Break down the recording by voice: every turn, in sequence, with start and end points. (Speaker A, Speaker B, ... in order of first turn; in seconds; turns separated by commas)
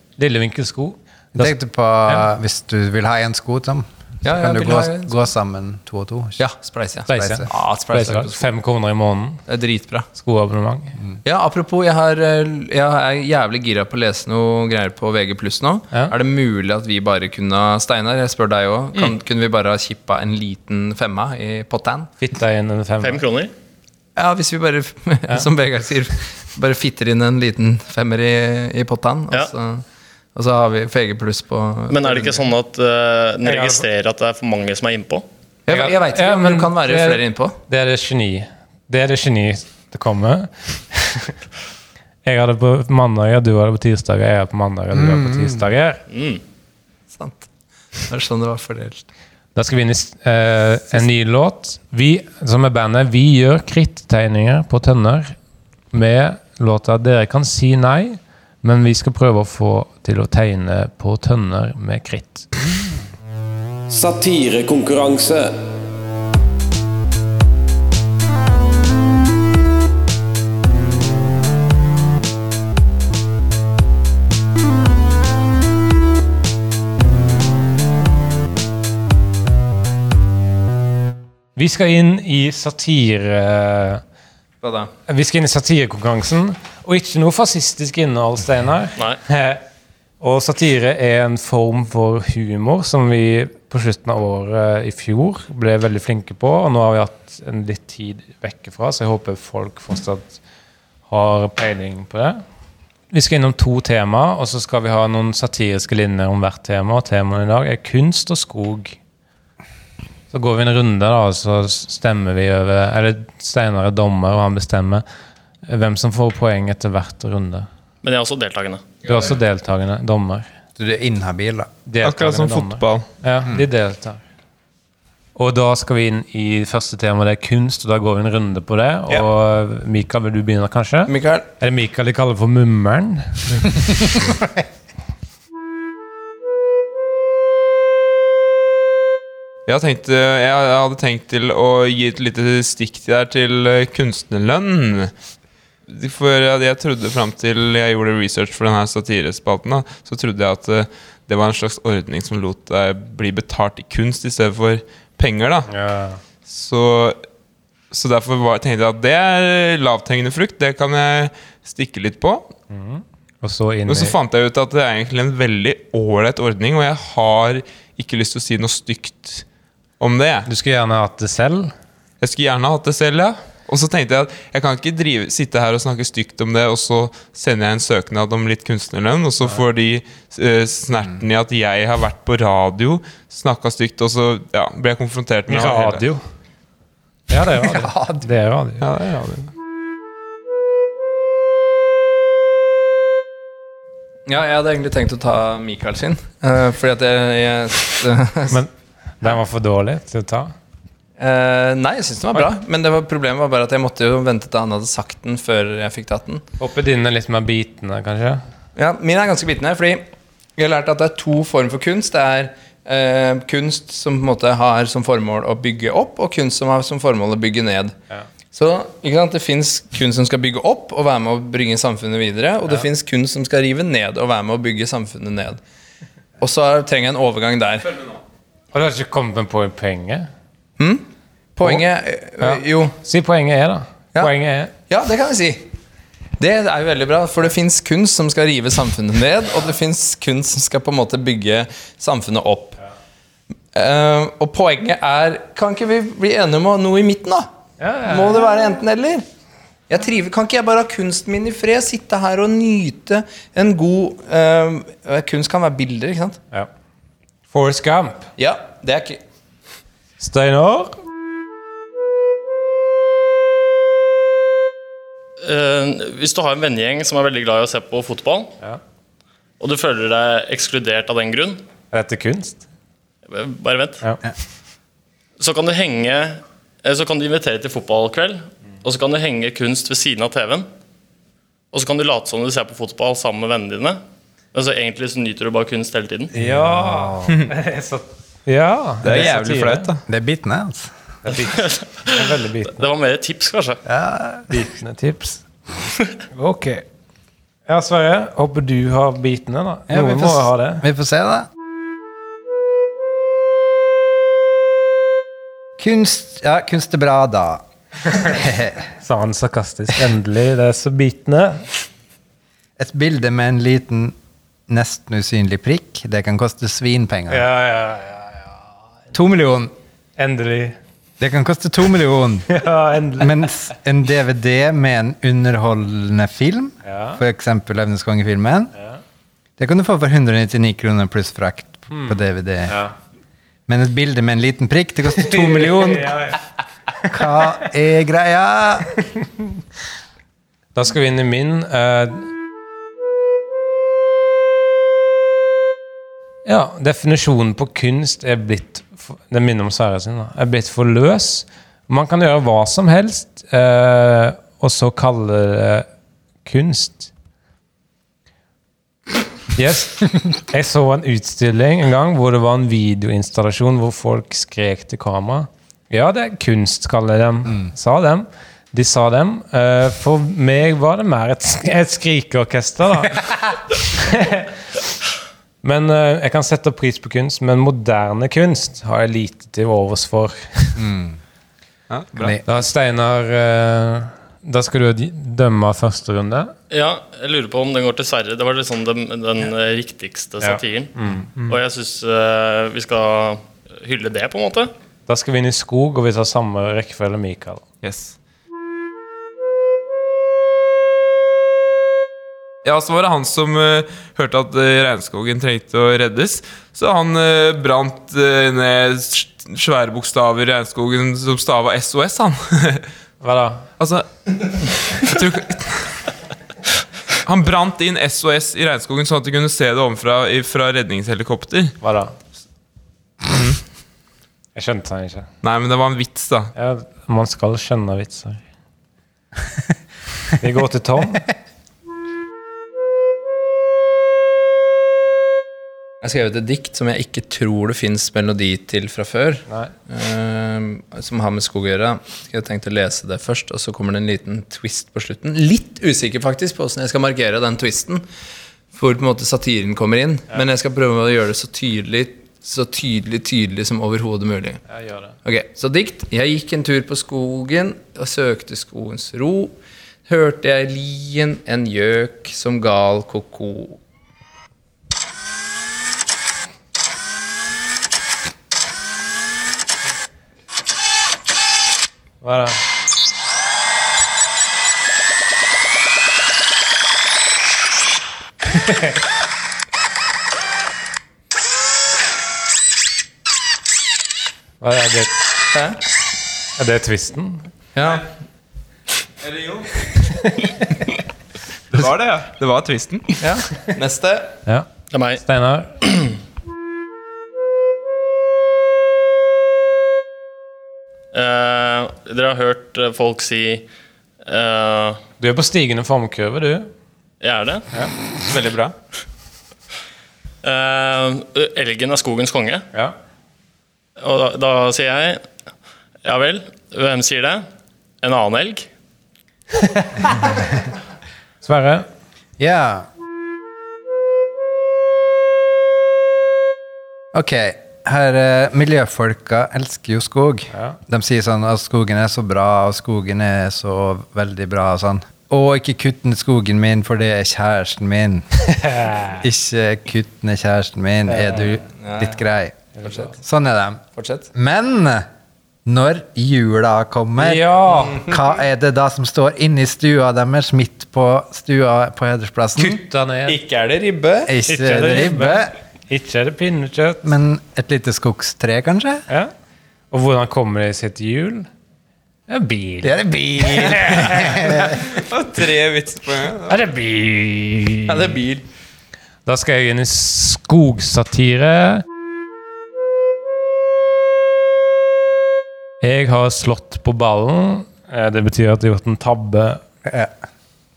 Speaker A: 0.2-1.5, Speaker B: 1.4-6.5, Speaker C: 4.2-5.1, Speaker C: 6.4-8.5, Speaker A: 7.1-9.4, Speaker B: 7.2-7.5, Speaker C: 9.5-10.1, Speaker A: 10.2-11.0, Speaker C: 11.2-22.1, Speaker A: 22.2-23.2, Speaker D: 23.0-23.5, Speaker C: 24.2-29.8, Speaker C: 30.4-32.5, Speaker D: 31.9-35.2, Speaker A: 33.5-33.8, Speaker C: 35.7-37.5, Speaker A: 35.7-41.3, Speaker A: 42.2-46.0, Speaker B: 44.9-45.7, Speaker D: 46.1-46.4, Speaker C: 47.1-49.1, Speaker A: 49.5-55.4, Speaker A: 55.9-62.5, Speaker A: 63.9-65.5, Speaker A: 81.6-84.0, Speaker C: 84.6-84.9, Speaker A: 85.1-89.6, Speaker A: 90.2-100.4, Speaker A: 101.1-102.4, Speaker A: 103.1-109.0, Speaker A: 110.3-115.0, Speaker A: 115.7-117.7, Speaker D: 118.0-118.9, Speaker A: 119.0-120.5, Speaker B: 120.8-121.7, Speaker A: 121.9-124.2, Speaker E: 122.0-123.1, Speaker A: 125.4-133.7, Speaker C: 131.1-131.5, Speaker E: 139.7-145.1, Speaker E: 145.9-155.7, Speaker A: 155.7-156.2, Speaker E: 156.4-157.2, Speaker E: 157.9-162.5, Speaker A: 162.7-164.2, Speaker E: 163.9-169.4, Speaker E: 170.0-170.5, Speaker A: 170.5-171.7, Speaker E: 172.2-186.0, Speaker A: 185.5-186.2, Speaker A: 187.3-188.9, Speaker C: 187.7-188.1, Speaker E: 188.8-189.5, Speaker C: 194.3-198.6, Speaker A: 198.5-200.5, Speaker C: 201.2-206.4, Speaker A: 206.6-208.4, Speaker C: 208.8-210.1, Speaker C: 210.6-218.0, Speaker C: 218.5-225.6, Speaker C: 226.4-228.0, Speaker A: 228.7-230.3, Speaker C: 230.8-231.1, Speaker C: 231.6-233.0, Speaker A: 232.4-234.7, Speaker C: 234.9-235.7, Speaker C: 236.4-242.8, Speaker C: 243.7-247.5, Speaker A: 247.8-248.4, Speaker C: 248.1-249.2, Speaker C: 249.9-256.4, Speaker A: 257.5-258.3, Speaker C: 258.4-259.2, Speaker A: 260.2-261.0, Speaker D: 265.4-268.5, Speaker D: 269.6-271.6, Speaker A: 271.9-272.6, Speaker D: 273.3-274.0, Speaker D: 275.4-280.7, Speaker D: 281.7-284.0, Speaker D: 284.5-286.3, Speaker B: 286.4-287.3, Speaker A: 286.4-289.9, Speaker E: 289.0-290.0, Speaker B: 290.1-290.9, Speaker A: 291.2-292.8, Speaker D: 291.6-293.8, Speaker B: 293.9-294.5, Speaker A: 294.5-295.4, Speaker A: 296.3-296.8, Speaker A: 297.7-300.8, Speaker B: 299.9-301.5, Speaker B: 305.8-307.6, Speaker B: 308.2-308.9, Speaker A: 309.0-311.7, Speaker B: 312.8-314.1, Speaker B: 314.7-317.5, Speaker A: 317.3-318.6, Speaker B: 319.1-319.7, Speaker A: 320.2-320.8, Speaker B: 321.2-322.5, Speaker A: 322.5-323.5, Speaker B: 323.2-328.7, Speaker A: 326.9-327.2, Speaker B: 329.6-332.8, Speaker A: 331.9-332.9, Speaker B: 333.7-336.2, Speaker A: 335.1-336.5, Speaker A: 337.0-337.6, Speaker B: 337.1-339.0, Speaker A: 340.8-342.3, Speaker A: 346.5-355.9, Speaker A: 356.4-357.1, Speaker A: 359.6-374.5, Speaker A: 375.6-380.8, Speaker B: 380.8-381.2, Speaker E: 381.9-382.4, Speaker B: 382.1-382.4, Speaker A: 382.4-386.5, Speaker D: 386.7-390.9, Speaker A: 390.4-391.6, Speaker D: 391.4-394.7, Speaker A: 395.1-397.6, Speaker E: 397.8-398.1, Speaker E: 402.6-412.9, Speaker A: 413.2-413.7, Speaker E: 413.8-416.1, Speaker E: 417.2-421.8, Speaker A: 421.8-422.1, Speaker E: 423.3-423.6, Speaker A: 424.6-425.3, Speaker E: 425.4-426.5, Speaker A: 426.6-428.4, Speaker A: 430.3-431.3, Speaker C: 436.0-448.0, Speaker C: 448.7-454.6, Speaker A: 454.7-455.2, Speaker C: 455.2-459.6, Speaker C: 460.1-463.8, Speaker A: 472.2-472.6, Speaker A: 478.6-478.9, Speaker A: 484.6-485.2, Speaker C: 485.5-485.8, Speaker A: 486.6-487.4, Speaker C: 487.8-488.1, Speaker E: 489.2-489.9, Speaker A: 490.2-490.6, Speaker E: 491.7-493.2, Speaker C: 493.2-494.3, Speaker D: 494.9-495.2, Speaker A: 495.2-495.8, Speaker D: 495.8-496.1, Speaker D: 501.1-503.6, Speaker D: 504.2-505.0, Speaker A: 505.2-506.7, Speaker D: 507.2-507.7, Speaker E: 508.3-508.8, Speaker D: 510.4-512.6, Speaker D: 514.0-515.3, Speaker D: 516.0-517.4, Speaker D: 518.0-518.7, Speaker A: 519.6-520.4, Speaker A: 521.4-521.9, Speaker B: 522.4-522.9, Speaker B: 527.1-538.2, Speaker A: 538.5-539.2, Speaker B: 539.1-542.7, Speaker C: 541.1-542.2, Speaker A: 542.8-543.1, Speaker C: 542.8-543.1, Speaker B: 543.2-543.8, Speaker C: 544.0-544.3, Speaker B: 544.3-545.1, Speaker B: 545.7-552.8, Speaker A: 547.2-548.1, Speaker A: 552.6-553.4, Speaker C: 553.3-554.4, Speaker B: 554.3-555.5, Speaker A: 554.5-557.1, Speaker B: 557.0-559.1, Speaker A: 559.9-561.5, Speaker A: 562.3-564.9, Speaker B: 562.8-564.9, Speaker E: 564.9-566.6, Speaker A: 566.5-568.2, Speaker C: 567.9-568.5, Speaker A: 569.3-571.8, Speaker A: 575.8-579.6, Speaker B: 579.8-580.1